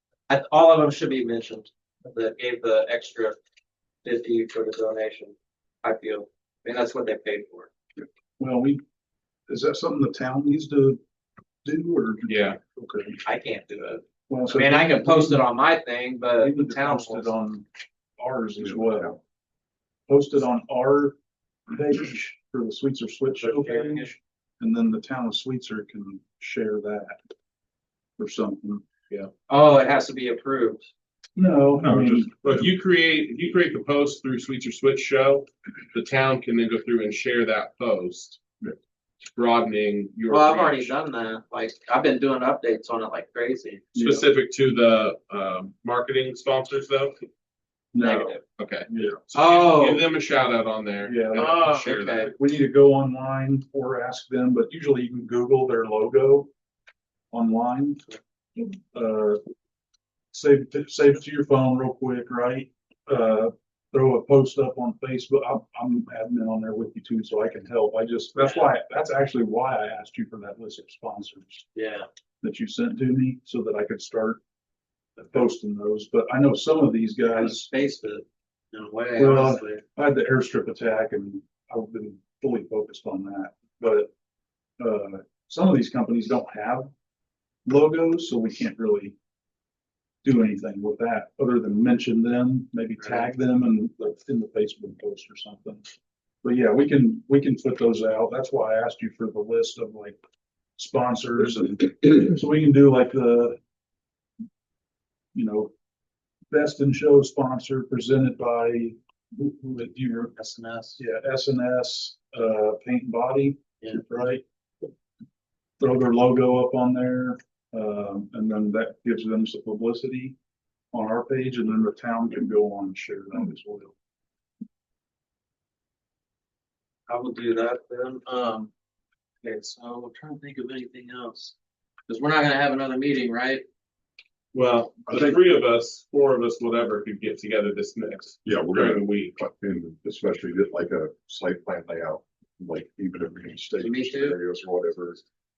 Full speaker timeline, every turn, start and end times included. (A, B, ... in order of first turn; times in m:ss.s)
0:00.3-0:03.4 A
0:04.0-0:07.7 A
0:08.4-0:08.8 B
0:09.5-0:11.0 B
0:11.6-0:13.2 B
0:12.3-0:12.6 C
0:13.2-0:17.3 A
0:14.3-0:15.5 B
0:16.4-0:17.7 B
0:18.2-0:19.2 B
0:18.6-0:19.2 D
0:20.1-0:21.2 B
0:21.7-0:24.1 B
0:23.4-0:24.2 A
0:24.6-0:27.2 B
0:28.2-0:28.8 B
0:29.5-0:30.9 A
0:31.4-0:32.3 B
0:31.8-0:32.6 D
0:32.0-0:38.4 C
0:39.3-0:40.9 C
0:40.3-0:43.9 A
0:43.9-0:44.2 B
0:43.9-0:47.2 C
0:47.9-0:48.4 B
0:48.0-0:48.4 A
0:48.6-0:52.3 C
0:48.9-0:49.2 B
0:49.3-0:50.0 A
0:51.0-0:56.5 B
0:51.3-0:52.3 A
0:57.3-0:58.0 B
0:58.6-0:59.4 B
1:00.3-1:11.7 B
1:08.4-1:08.7 A
1:11.8-1:12.1 A
1:12.4-1:14.4 B
1:15.2-1:17.7 B
1:17.4-1:19.8 A
1:19.2-1:24.1 B
1:24.8-1:26.9 B
1:27.7-1:29.2 B
1:30.2-1:35.9 B
1:33.0-1:33.3 A
1:36.4-1:40.2 B
1:40.8-1:43.6 B
1:45.4-1:45.7 B
1:46.5-1:50.4 B
1:50.4-1:51.0 A
1:51.0-1:54.4 B
1:55.8-2:00.4 B
2:00.9-2:03.9 B
2:07.1-2:08.7 A
2:09.4-2:11.5 A
2:12.1-2:13.6 A
2:14.5-2:19.3 C
2:15.1-2:15.4 D
2:18.4-2:25.2 D
2:23.8-2:24.4 A